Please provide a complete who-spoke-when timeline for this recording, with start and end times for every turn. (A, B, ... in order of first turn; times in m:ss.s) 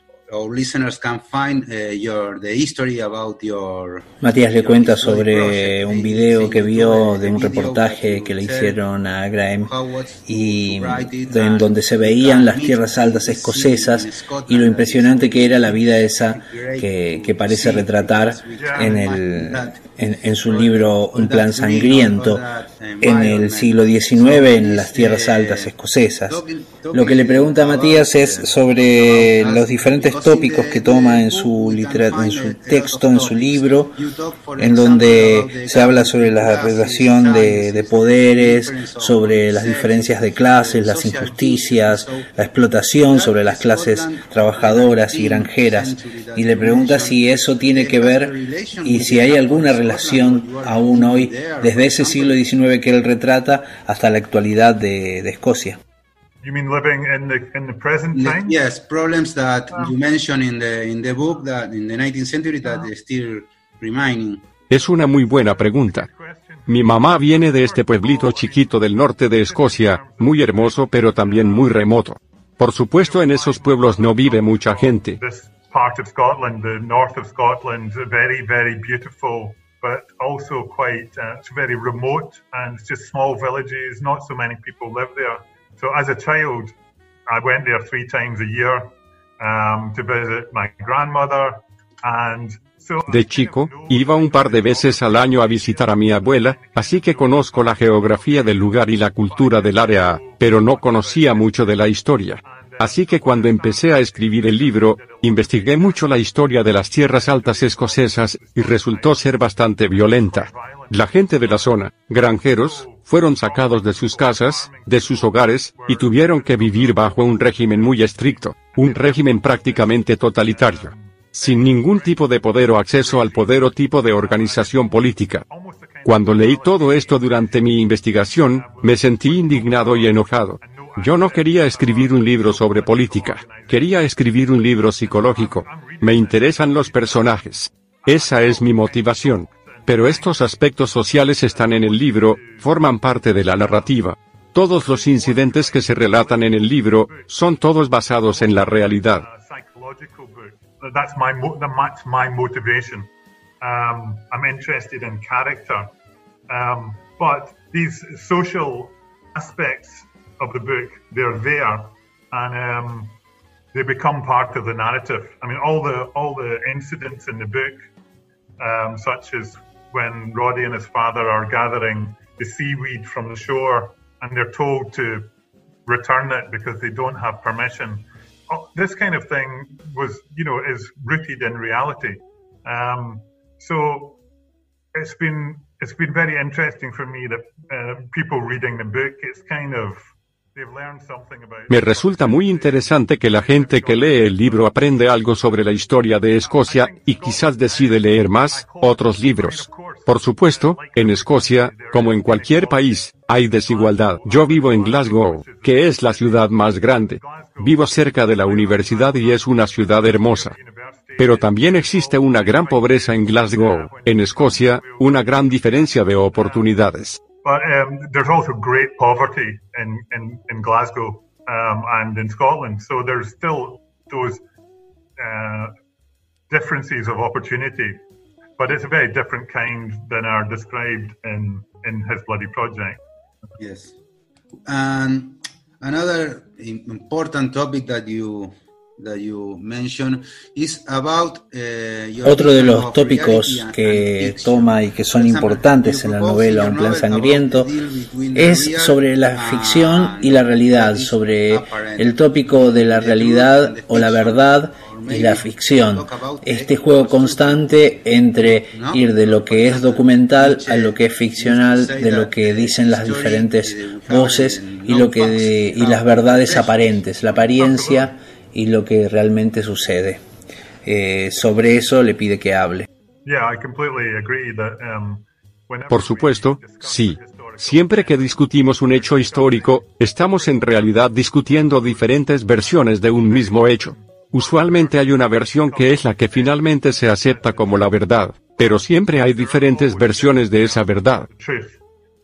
0:00.3-0:08.8 A
0:04.2-0:09.7 B
0:09.6-0:19.9 A
0:10.2-0:22.4 B
0:18.6-0:19.0 C
0:20.4-0:25.7 A
0:23.0-0:34.0 B
0:26.3-0:42.3 A
0:34.6-0:55.8 B
0:43.0-0:52.4 A
0:56.4-0:58.6 C
0:58.1-1:04.4 A
1:02.6-1:02.9 C
1:04.7-1:06.1 D
1:04.7-1:12.0 C
1:06.7-1:15.2 D
1:13.0-1:26.7 C
1:27.3-2:14.1 C
1:33.1-2:05.4 D
2:06.0-2:29.3 D
2:15.0-2:17.4 C
2:18.0-2:24.0 C
2:24.7-2:33.1 C
2:33.6-2:35.9 C
2:36.5-2:43.2 C
2:43.7-2:47.8 C
2:48.6-2:55.3 C
2:55.8-3:04.2 C
3:04.9-3:15.6 C
3:11.7-3:30.5 D
3:16.3-3:36.8 C
3:31.2-3:37.2 D
3:37.4-3:44.4 C
3:45.2-3:45.7 C
3:46.5-3:48.0 C
3:48.6-3:53.0 C
3:53.6-3:54.0 A
3:54.7-4:17.8 A
4:02.2-4:07.7 B
4:08.3-4:30.2 B
4:18.4-4:27.5 A
4:27.6-4:28.1 C
4:30.8-4:32.9 B
4:33.2-4:51.8 C
4:35.9-4:51.3 D